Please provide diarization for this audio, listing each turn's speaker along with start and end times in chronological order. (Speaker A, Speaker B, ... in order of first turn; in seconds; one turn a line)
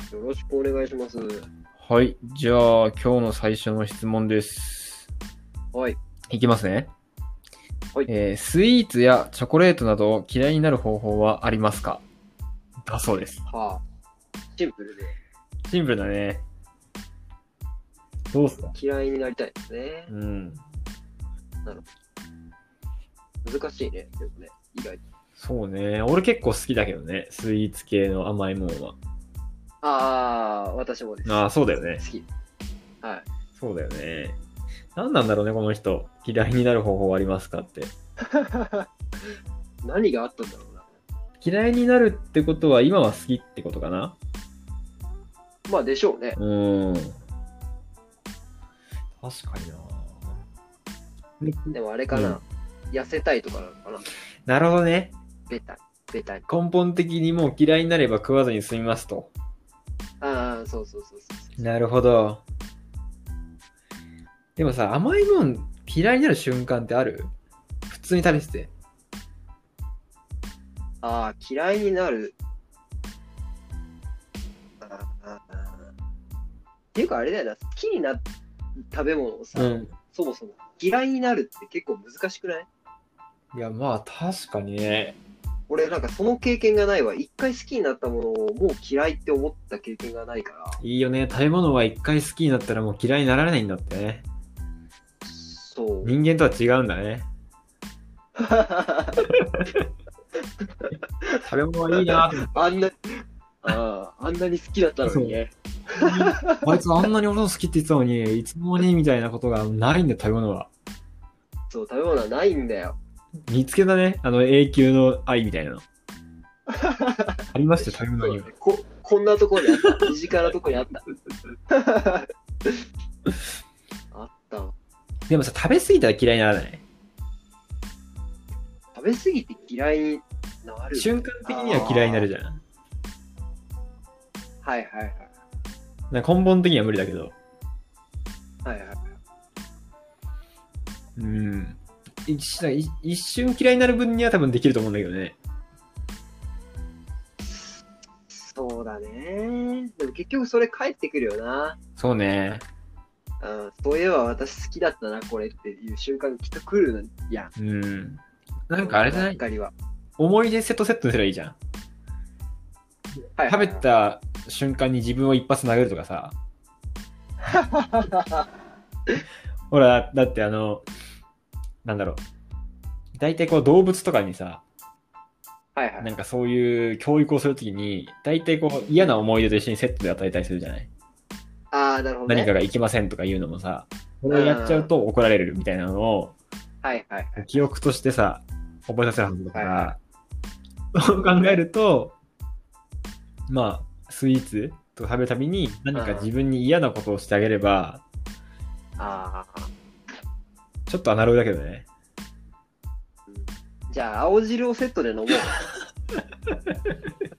Speaker A: 0.1-1.5
Speaker B: 1.8-5.1
Speaker B: 6.3-6.9
Speaker B: 8.1-12.0
Speaker B: 12.9-13.4
Speaker A: 13.5-13.8
Speaker A: 14.6-15.1
Speaker B: 15.7-16.4
Speaker B: 18.3-18.8
Speaker A: 18.7-20.1
Speaker B: 20.1-20.6
Speaker A: 23.4-25.0
Speaker B: 25.4-29.0
Speaker A: 29.8-31.5
Speaker B: 31.3-32.0
Speaker A: 32.0-32.3
Speaker B: 33.6-34.4
Speaker B: 35.0-37.9
Speaker A: 38.3-38.9
Speaker A: 39.8-40.9
Speaker B: 41.4-44.2
Speaker A: 45.7-46.4
Speaker B: 46.4-47.2
Speaker B: 49.2-50.4
Speaker B: 51.4-52.4
Speaker A: 51.7-54.0
Speaker B: 54.5-55.1
Speaker A: 55.5-56.5
Speaker B: 56.5-59.3
Speaker A: 60.2-61.6
Speaker B: 61.6-62.4
Speaker B: 64.6-67.3
Speaker B: 67.9-68.7
Speaker A: 71.0-72.4
Speaker A: 74.8-75.9
Speaker A: 77.0-78.2
Speaker A: 78.9-82.7
Speaker B: 79.5-79.9
Speaker B: 83.5-85.2
Speaker A: 85.7-90.8
Speaker B: 90.8-94.3
Speaker A: 95.2-96.2
Speaker B: 96.0-97.3
Speaker A: 98.4-99.2
Speaker B: 99.3-99.8
Speaker A: 100.8-101.4
Speaker B: 101.4-102.7
Speaker A: 102.0-106.6
Speaker B: 105.0-105.4
Speaker B: 105.9-110.7
Speaker A: 111.7-113.0
Speaker B: 113.5-115.8
Speaker A: 116.7-121.0
Speaker B: 117.5-118.5
Speaker A: 121.7-122.8
Speaker A: 124.1-124.7
Speaker B: 125.3-126.8
Speaker A: 128.9-132.3
Speaker B: 130.9-132.6
Speaker A: 134.6-135.3
Speaker B: 136.1-137.3
Speaker A: 138.7-139.1
Speaker B: 141.2-145.4
Speaker A: 147.4-151.8
Speaker B: 152.0-152.7
Speaker A: 153.4-157.5
Speaker B: 157.6-159.4
Speaker A: 158.8-159.7
Speaker B: 160.2-161.6
Speaker B: 163.3-166.3
Speaker A: 163.4-163.8
Speaker A: 167.4-168.5
Speaker B: 169.7-170.9
Speaker B: 171.8-172.2
Speaker B: 173.2-174.6
Speaker A: 175.8-176.1
Speaker B: 176.0-180.9
Speaker A: 181.7-182.5
Speaker B: 182.3-186.4
Speaker A: 184.3-184.9
Speaker A: 186.8-187.7
Speaker B: 187.4-190.0
Speaker A: 189.5-189.9
Speaker B: 190.9-192.2
Speaker A: 191.3-191.6
Speaker B: 193.5-198.0
Speaker A: 195.9-196.3
Speaker A: 199.0-199.7
Speaker B: 200.9-201.9
Speaker A: 203.3-205.6